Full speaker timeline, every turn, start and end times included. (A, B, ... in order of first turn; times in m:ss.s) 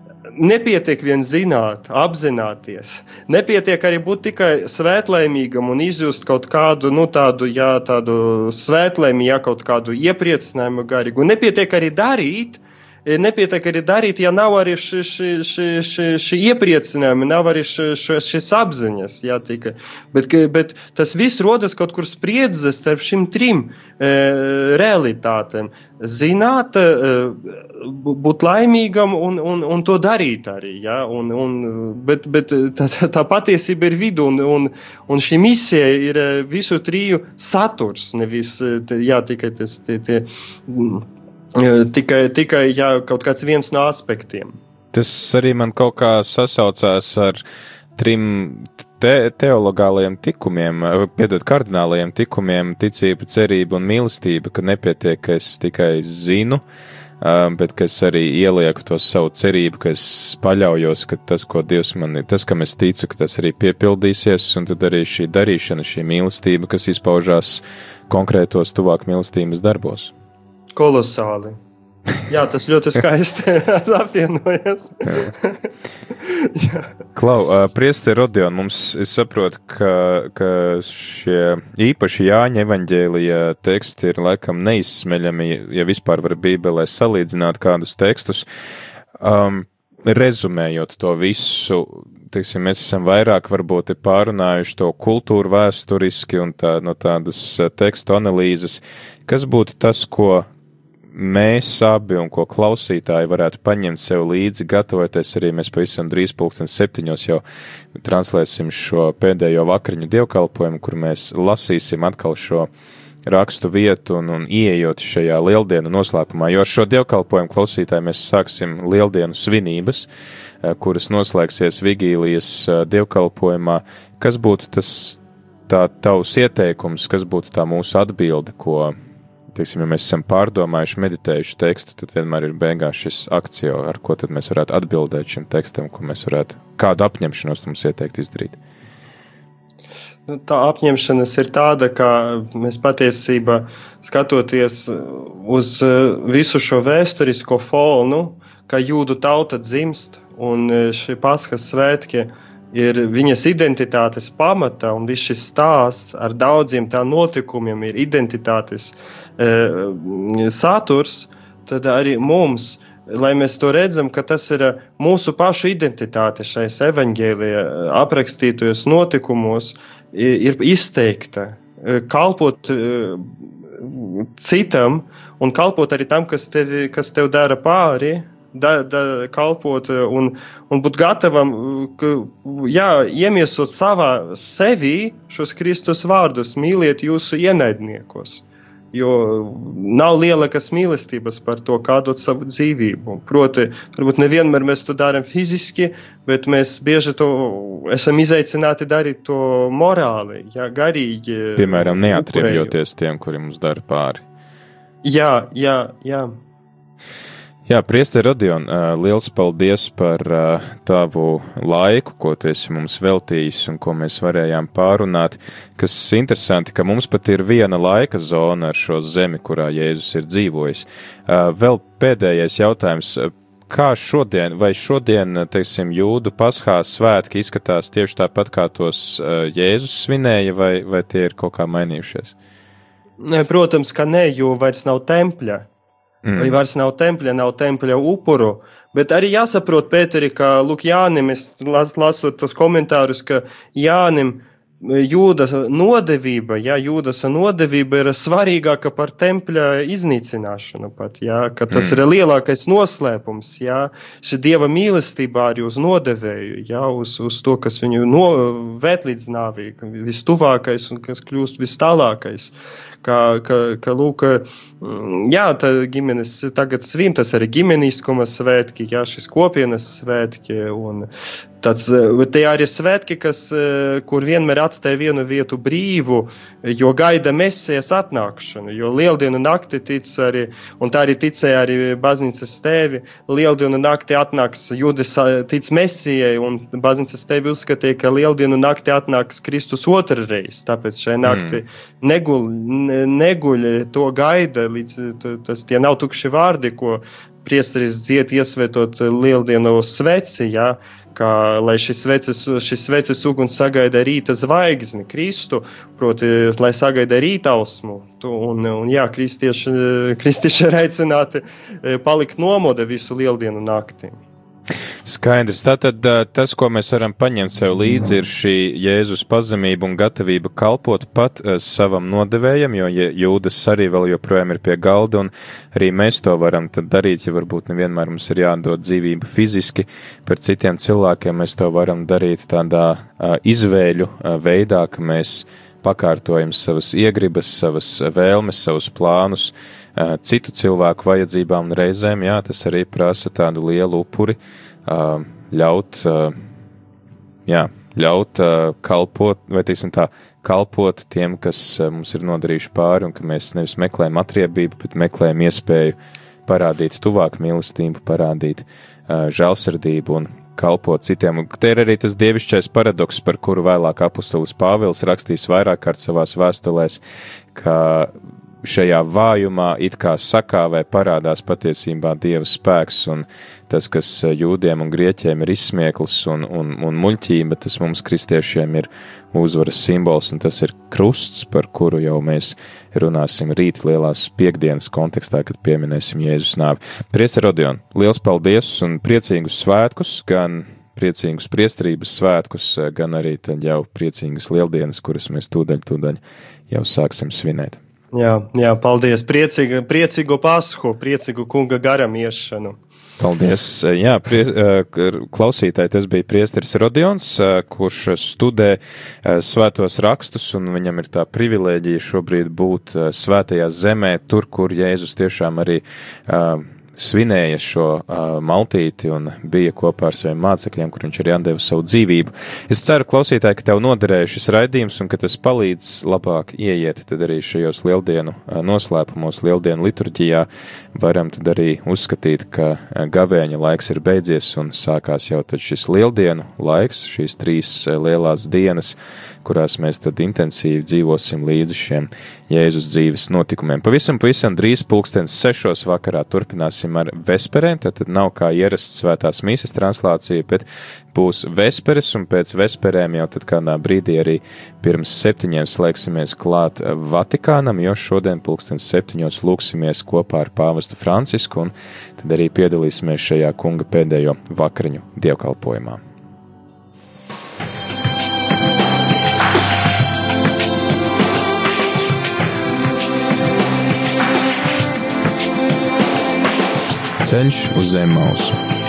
0:00.3-0:44.6 A
0:44.9-0:47.4 B
0:48.0-0:56.6 B
0:57.2-1:10.1 B
1:10.7-1:11.6 A
1:12.3-1:15.7 A
1:15.0-1:15.3 B
1:16.2-1:16.9 A
1:17.2-1:28.4 B
1:29.2-1:40.5 B
1:41.1-1:47.4 B
1:48.0-1:52.7 B
1:53.2-2:00.1 B
2:00.6-2:08.9 B
2:09.5-2:18.6 B
2:20.3-3:22.7 A
3:21.6-3:24.2 B
3:25.0-3:26.3 A
3:27.6-3:52.3 B
3:53.2-3:55.7 A
3:56.2-3:56.6 B
3:56.4-4:31.1 A
4:11.7-4:12.0 B
4:31.6-5:14.2 A
4:51.2-4:51.6 B
5:15.0-5:46.4 B
5:47.4-5:55.9 B
5:56.4-6:07.0 B
6:07.5-6:37.8 B
6:38.1-6:42.8 A
6:43.2-7:46.0 B
7:57.2-7:58.6 B